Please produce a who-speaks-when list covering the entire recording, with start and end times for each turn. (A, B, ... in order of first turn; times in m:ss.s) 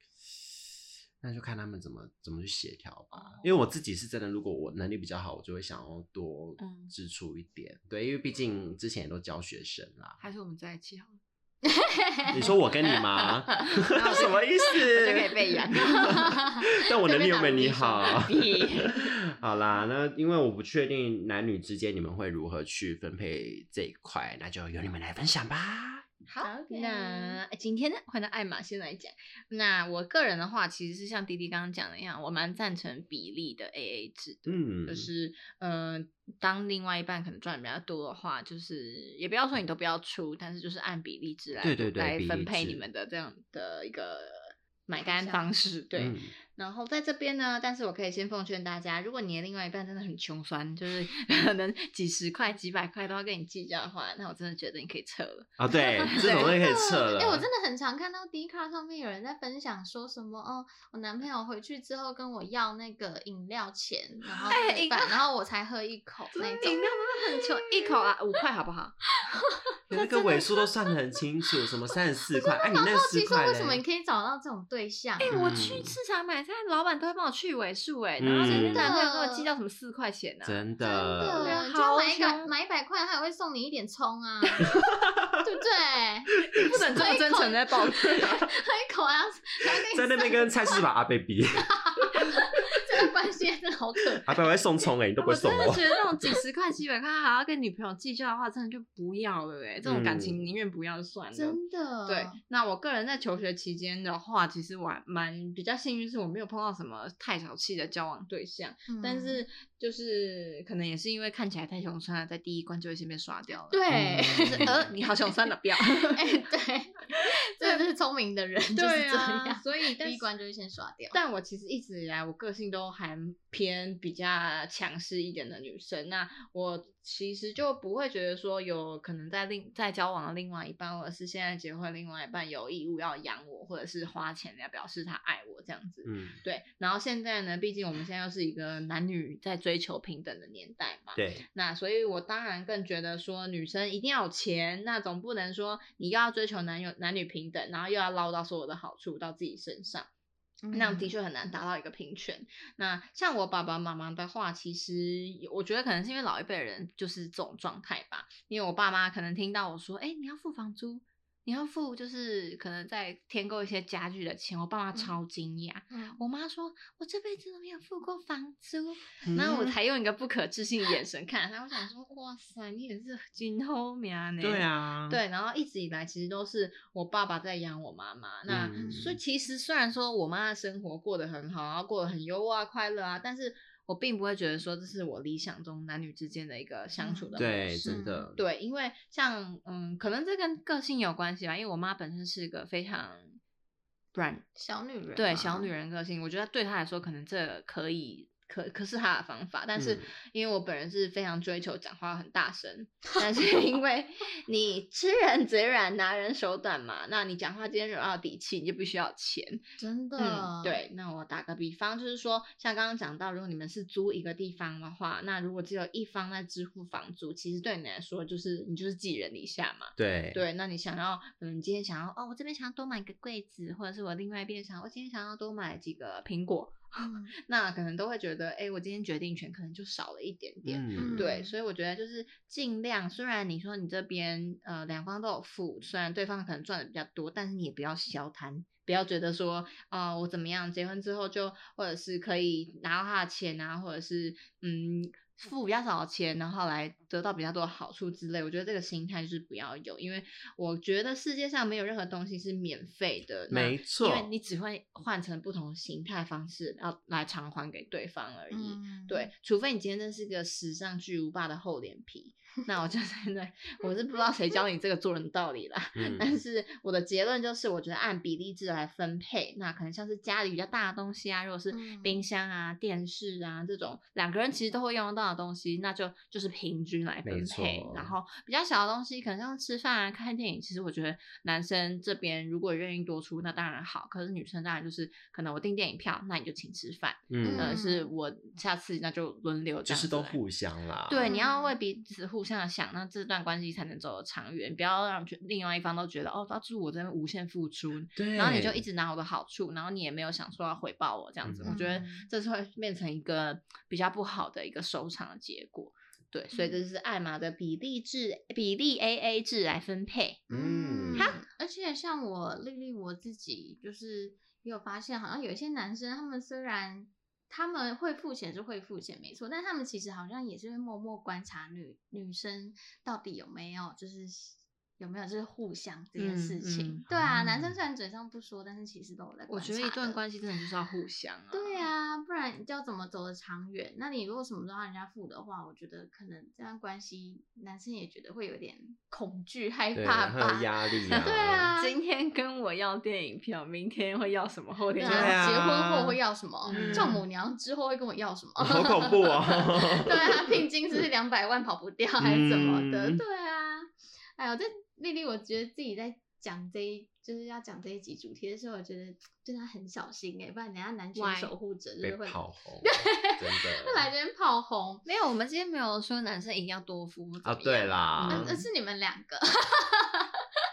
0:00.3-0:10.2 A
0:03.1-0:03.6 B
0:06.6-0:06.9 B
0:10.2-0:11.2 B
0:11.6-0:12.5 C
0:12.3-0:26.1 A
0:13.2-0:16.3 B
0:16.2-0:18.2 C
0:17.6-0:19.1 B
0:26.3-0:56.6 B
0:26.4-0:27.4 C
0:34.5-0:35.1 A
0:41.6-0:42.8 A
0:44.9-0:45.5 C
0:46.0-0:46.4 A
0:55.6-0:57.5 A
0:55.7-1:08.1 C
1:04.5-1:05.2 B
1:06.3-1:09.0 B
1:09.9-1:13.8 A
1:09.9-1:10.4 B
1:12.3-1:15.3 C
1:15.2-1:20.6 B
1:15.3-1:16.0 A
1:18.2-1:19.0 A
1:18.5-1:19.5 C
1:20.4-1:21.6 A
1:20.8-1:24.8 C
1:21.3-1:22.5 B
1:25.4-1:30.8 C
1:26.6-1:28.3 B
1:28.0-1:28.4 A
1:29.8-1:32.3 A
1:31.6-1:34.3 C
1:34.2-1:35.9 A
1:35.2-1:53.8 B
1:39.8-1:40.4 A
1:41.3-1:42.4 C
1:48.9-1:49.4 C
1:53.7-1:54.7 C
1:53.9-1:54.9 A
1:54.4-1:56.4 B
1:56.1-2:01.2 C
1:58.8-2:00.3 B
2:01.1-2:30.1 B
2:16.0-2:16.4 A
2:21.2-2:21.4 A
2:30.7-2:31.1 C
2:30.7-3:13.4 B
2:45.9-2:46.2 C
2:49.3-2:49.8 A
2:54.4-2:55.2 A
2:58.5-2:59.2 A
3:07.0-3:08.3 C
3:07.4-3:08.4 A
3:14.2-3:14.4 B
3:14.6-3:15.7 C
3:15.2-3:29.6 B
3:19.8-3:20.1 A
3:29.8-3:30.8 C
3:30.2-4:50.4 B
3:40.0-3:40.4 A
3:47.1-3:47.3 C
3:50.6-3:51.3 A
3:51.0-3:51.5 C
4:13.5-4:14.3 A
4:18.5-4:19.3 C
4:26.0-4:26.4 A
4:31.7-4:32.2 C
4:37.2-4:38.2 A
4:47.3-4:47.8 A
4:47.4-4:48.1 C
4:49.8-4:51.3 A
4:51.1-5:10.4 B
4:51.2-4:51.8 C
4:58.2-4:58.8 A
5:01.4-5:01.9 A
5:01.7-5:02.3 C
5:10.5-5:30.2 C
5:10.5-5:11.3 A
5:26.2-5:27.0 B
5:27.1-5:27.7 A
5:29.5-5:31.9 B
5:31.5-5:42.0 C
5:39.9-5:41.7 A
5:41.1-5:45.4 B
5:45.0-6:05.1 C
5:45.0-5:46.2 A
5:46.6-5:47.2 B
5:46.7-5:47.2 A
5:48.6-5:50.6 A
5:52.2-5:53.2 A
6:01.2-6:01.5 B
6:02.0-6:04.1 A
6:05.0-6:08.6 B
6:07.4-6:08.6 A
6:08.3-6:10.4 C